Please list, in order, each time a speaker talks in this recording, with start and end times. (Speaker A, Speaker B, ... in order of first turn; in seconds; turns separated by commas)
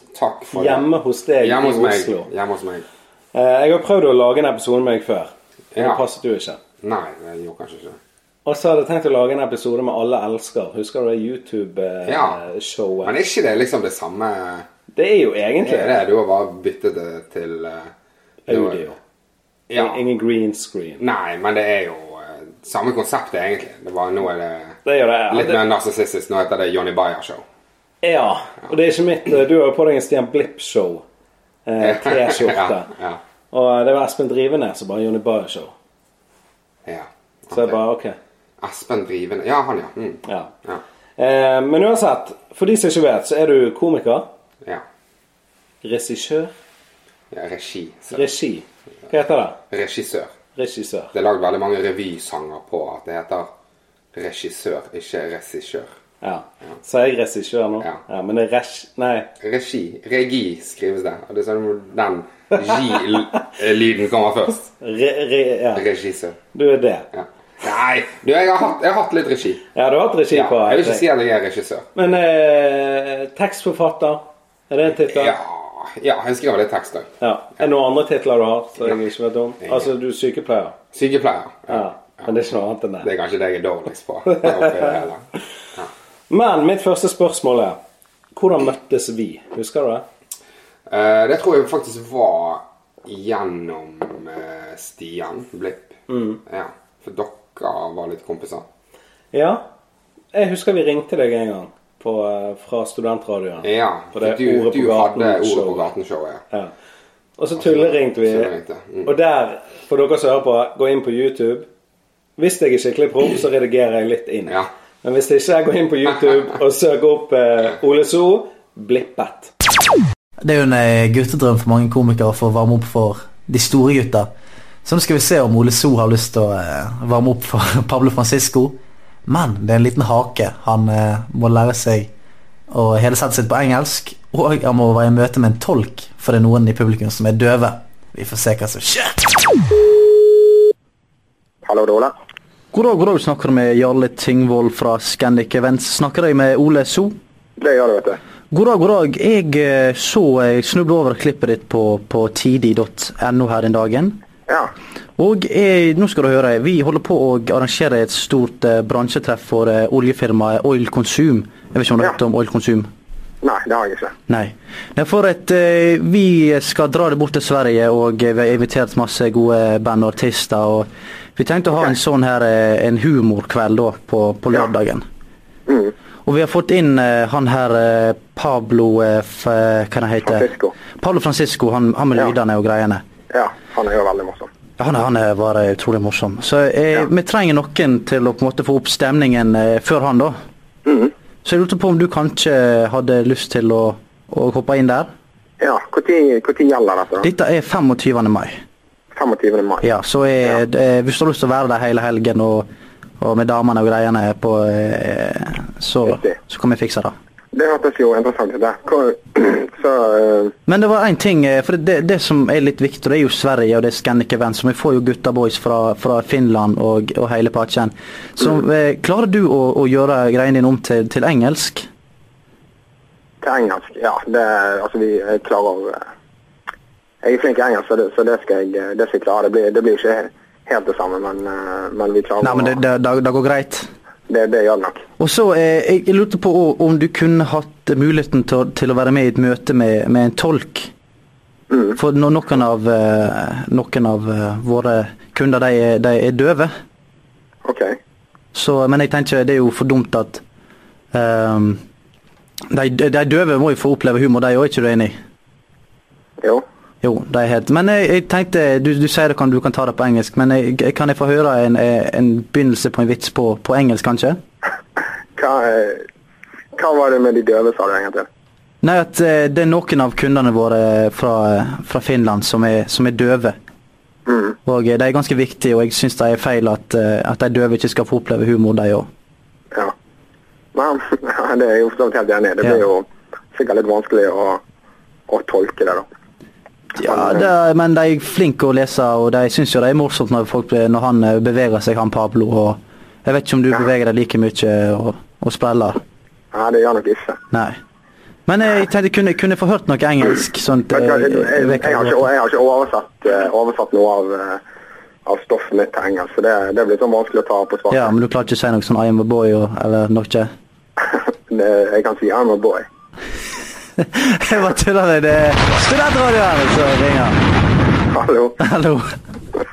Speaker A: 0.1-0.9, Speaker B: 0.5-2.3, Speaker A: 1.4-2.9, Speaker B: 3.3-6.6, Speaker A: 5.7-6.0, Speaker A: 6.8-8.0, Speaker B: 8.4-13.1, Speaker A: 12.0-12.4, Speaker A: 13.0-14.7, Speaker B: 14.9-16.0, Speaker A: 15.6-17.9, Speaker B: 18.5-19.0, Speaker A: 18.5-18.8, Speaker A: 19.7-20.0, Speaker B: 19.7-21.0, Speaker A: 21.0-27.4, Speaker B: 24.8-25.6, Speaker B: 28.0-31.0, Speaker B: 31.6-32.9, Speaker A: 31.8-33.2, Speaker B: 33.5-35.7, Speaker A: 36.8-37.8, Speaker B: 37.5-38.2, Speaker A: 38.6-40.8, Speaker B: 40.2-40.5, Speaker B: 41.2-44.3, Speaker B: 45.8-46.5, Speaker A: 47.3-48.3, Speaker B: 48.1-49.6, Speaker A: 49.7-50.3, Speaker B: 50.5-51.1, Speaker A: 51.1-53.5, Speaker A: 54.1-55.9, Speaker B: 56.2-59.3, Speaker A: 59.4-64.7, Speaker B: 64.8-65.8, Speaker A: 65.7-66.4, Speaker B: 66.5-67.1, Speaker A: 67.1-69.6, Speaker B: 69.7-71.0, Speaker A: 70.3-71.9, Speaker B: 72.0-75.3, Speaker A: 75.0-77.1, Speaker B: 77.2-80.8, Speaker A: 79.6-79.9, Speaker A: 80.9-82.3, Speaker B: 81.7-83.1, Speaker A: 83.0-85.2, Speaker B: 84.3-85.0, Speaker B: 86.3-87.8, Speaker B: 88.3-90.0, Speaker A: 90.9-98.7, Speaker B: 96.1-96.4, Speaker B: 99.3-99.7, Speaker B: 100.3-105.9, Speaker A: 103.6-106.4, Speaker B: 107.4-108.5, Speaker A: 107.6-109.1, Speaker B: 109.0-111.7, Speaker B: 112.4-119.5, Speaker C: 120.4-124.3, Speaker C: 124.8-132.1, Speaker C: 132.7-139.6, Speaker D: 141.6-142.1, Speaker C: 142.7-147.1, Speaker D: 147.6-148.2, Speaker C: 148.5-154.2, Speaker C: 155.2-162.9, Speaker D: 163.4-164.1, Speaker C: 164.3-175.0, Speaker D: 175.7-175.9, Speaker C: 176.2-183.0, Speaker D: 180.2-180.7, Speaker D: 183.3-184.5, Speaker C: 184.8-190.3, Speaker D: 190.8-191.1, Speaker C: 191.4-195.1, Speaker D: 195.6-197.3, Speaker C: 197.2-198.6, Speaker D: 199.1-199.9, Speaker C: 199.8-202.7, Speaker C: 203.2-207.1, Speaker D: 206.1-206.3, Speaker D: 207.5-210.5, Speaker C: 210.7-221.9, Speaker D: 223.4-226.0, Speaker D: 227.2-232.7, Speaker C: 232.4-233.9, Speaker D: 234.3-235.0, Speaker C: 235.2-240.9, Speaker D: 241.7-241.9, Speaker C: 241.9-246.7, Speaker D: 247.6-248.0, Speaker C: 248.5-250.4, Speaker C: 251.1-251.8, Speaker C: 252.7-255.1, Speaker C: 257.0-264.4, Speaker D: 265.4-266.0, Speaker D: 266.7-268.3, Speaker C: 268.8-273.6, Speaker D: 274.3-274.6, Speaker C: 274.6-279.1, Speaker D: 280.7-284.6, Speaker D: 285.3-286.1, Speaker C: 286.9-296.0, Speaker D: 287.0-287.5, Speaker D: 296.5-297.4, Speaker C: 297.5-297.8, Speaker C: 298.5-302.2, Speaker D: 300.9-304.6, Speaker D: 305.2-308.1, Speaker C: 307.9-310.5, Speaker D: 311.1-312.8, Speaker C: 314.0-317.4, Speaker D: 318.1-318.6, Speaker C: 318.6-319.1